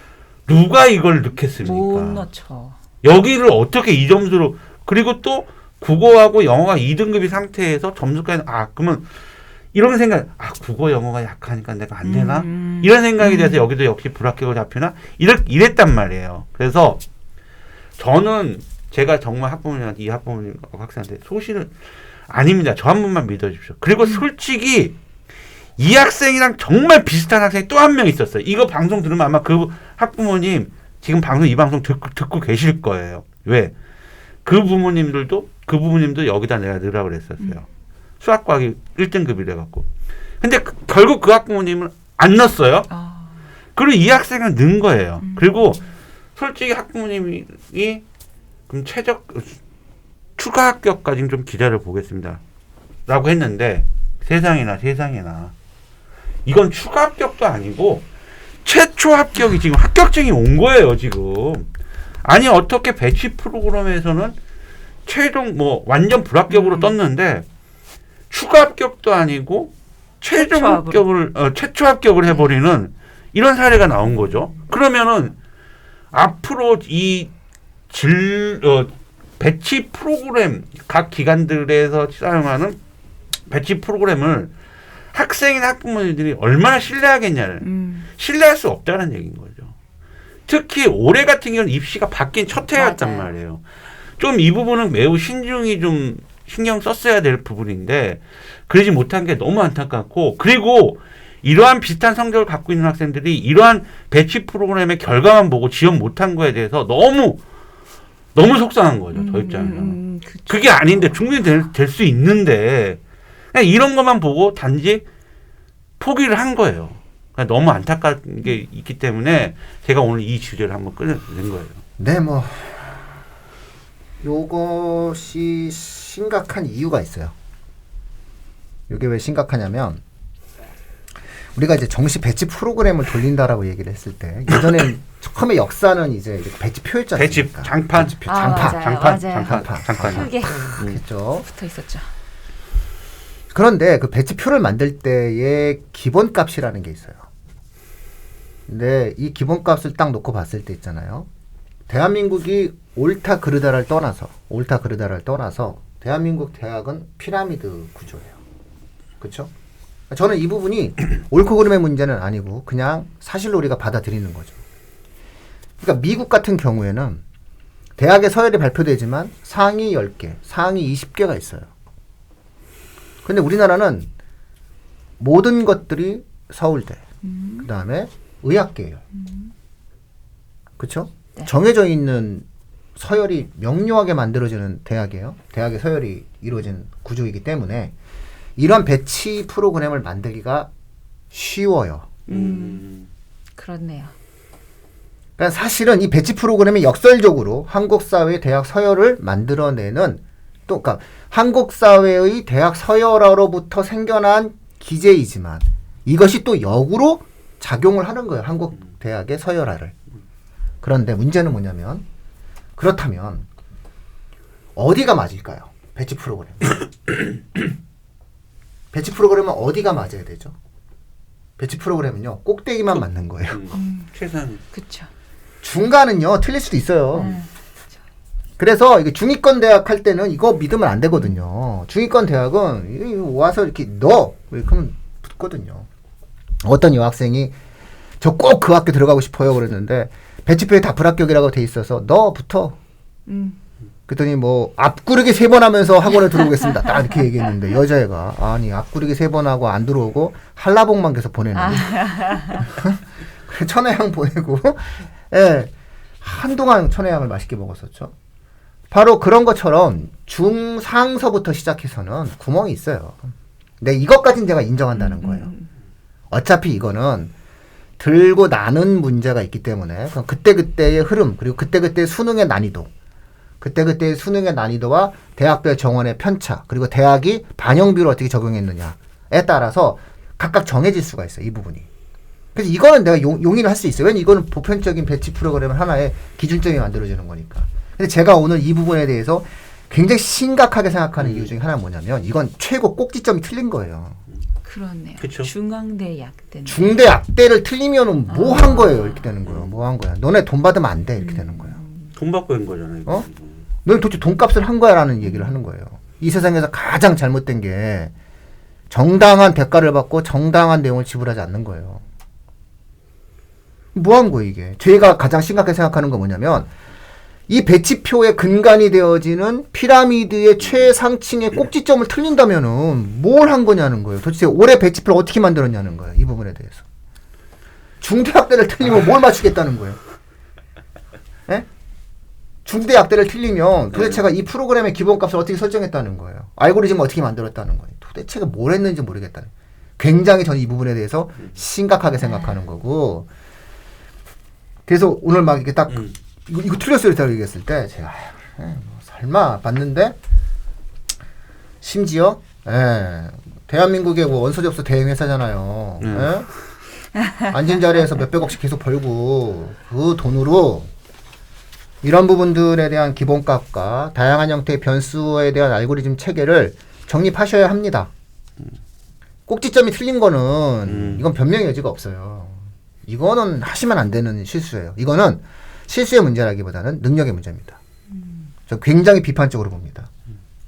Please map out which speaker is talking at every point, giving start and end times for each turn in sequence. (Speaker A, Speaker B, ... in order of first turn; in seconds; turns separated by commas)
Speaker A: 0.5-2.2, Speaker B: 1.6-2.8, Speaker A: 3.0-9.1, Speaker A: 9.7-17.0, Speaker B: 12.0-13.6, Speaker A: 18.0-21.7, Speaker A: 22.3-25.0, Speaker A: 25.8-33.7, Speaker A: 34.5-37.6, Speaker A: 38.2-39.9, Speaker A: 40.4-42.9, Speaker B: 42.9-43.4, Speaker A: 43.8-45.8, Speaker B: 45.2-45.9, Speaker A: 46.4-48.0, Speaker A: 48.7-49.6, Speaker A: 50.4-52.4, Speaker A: 53.1-55.5, Speaker A: 56.5-58.1, Speaker A: 58.6-61.7, Speaker A: 62.2-64.4, Speaker A: 65.1-67.5, Speaker B: 66.5-67.0, Speaker A: 68.3-75.3, Speaker B: 70.3-71.1, Speaker A: 76.1-77.3, Speaker A: 77.9-82.8, Speaker A: 83.5-84.5, Speaker A: 85.1-87.7, Speaker B: 87.6-88.1, Speaker A: 88.2-89.7, Speaker A: 90.5-93.6, Speaker B: 92.6-93.3, Speaker A: 94.2-107.4, Speaker A: 108.3-113.0, Speaker B: 109.1-111.5, Speaker A: 113.5-115.0, Speaker A: 116.0-121.8, Speaker C: 122.0-122.9, Speaker C: 124.2-127.3, Speaker C: 128.9-130.0, Speaker C: 131.6-141.5, Speaker A: 137.2-141.0, Speaker B: 138.3-142.1, Speaker C: 143.5-147.2, Speaker C: 148.7-151.3, Speaker C: 151.9-158.4, Speaker C: 159.2-159.5, Speaker C: 160.1-164.6, Speaker C: 165.8-167.2, Speaker C: 168.0-171.7, Speaker C: 173.2-174.1, Speaker C: 175.2-177.0, Speaker B: 177.2-177.7, Speaker C: 177.6-179.0, Speaker B: 179.1-179.5, Speaker C: 180.8-182.4, Speaker C: 183.0-187.9, Speaker C: 188.6-190.7, Speaker C: 191.3-192.1, Speaker B: 192.3-192.8, Speaker A: 192.3-193.1, Speaker B: 193.6-194.1, Speaker C: 195.4-209.9, Speaker C: 210.8-212.1, Speaker C: 212.8-213.5, Speaker C: 214.8-216.8, Speaker C: 218.9-220.5, Speaker C: 221.6-223.7, Speaker A: 222.9-224.6, Speaker B: 223.7-224.1, Speaker B: 224.7-225.1, Speaker C: 225.6-227.4, Speaker B: 227.1-227.5, Speaker C: 228.6-235.9, Speaker C: 236.6-237.6, Speaker C: 238.2-242.8, Speaker B: 243.3-243.6, Speaker C: 244.1-255.7, Speaker B: 251.5-252.7, Speaker C: 256.2-258.1, Speaker C: 258.9-265.5, Speaker B: 264.9-265.6, Speaker C: 266.3-267.3, Speaker C: 268.0-272.9, Speaker C: 273.6-281.9, Speaker C: 282.6-294.2, Speaker A: 291.2-291.5, Speaker B: 294.6-297.1, Speaker A: 295.2-295.5, Speaker C: 296.7-301.8, Speaker B: 298.3-299.3, Speaker A: 299.4-299.7, Speaker B: 301.2-302.1, Speaker A: 302.2-303.5, Speaker C: 303.9-308.1, Speaker B: 305.2-305.5, Speaker C: 308.9-312.0, Speaker C: 313.9-316.7, Speaker C: 317.5-326.8, Speaker C: 328.0-330.0, Speaker C: 332.7-343.3, Speaker A: 333.9-334.2, Speaker B: 342.2-342.6, Speaker C: 344.9-350.2, Speaker C: 351.8-356.5, Speaker A: 356.0-356.4, Speaker C: 357.4-360.9, Speaker C: 362.0-368.1, Speaker C: 369.5-377.8, Speaker A: 370.9-371.2, Speaker C: 378.7-380.1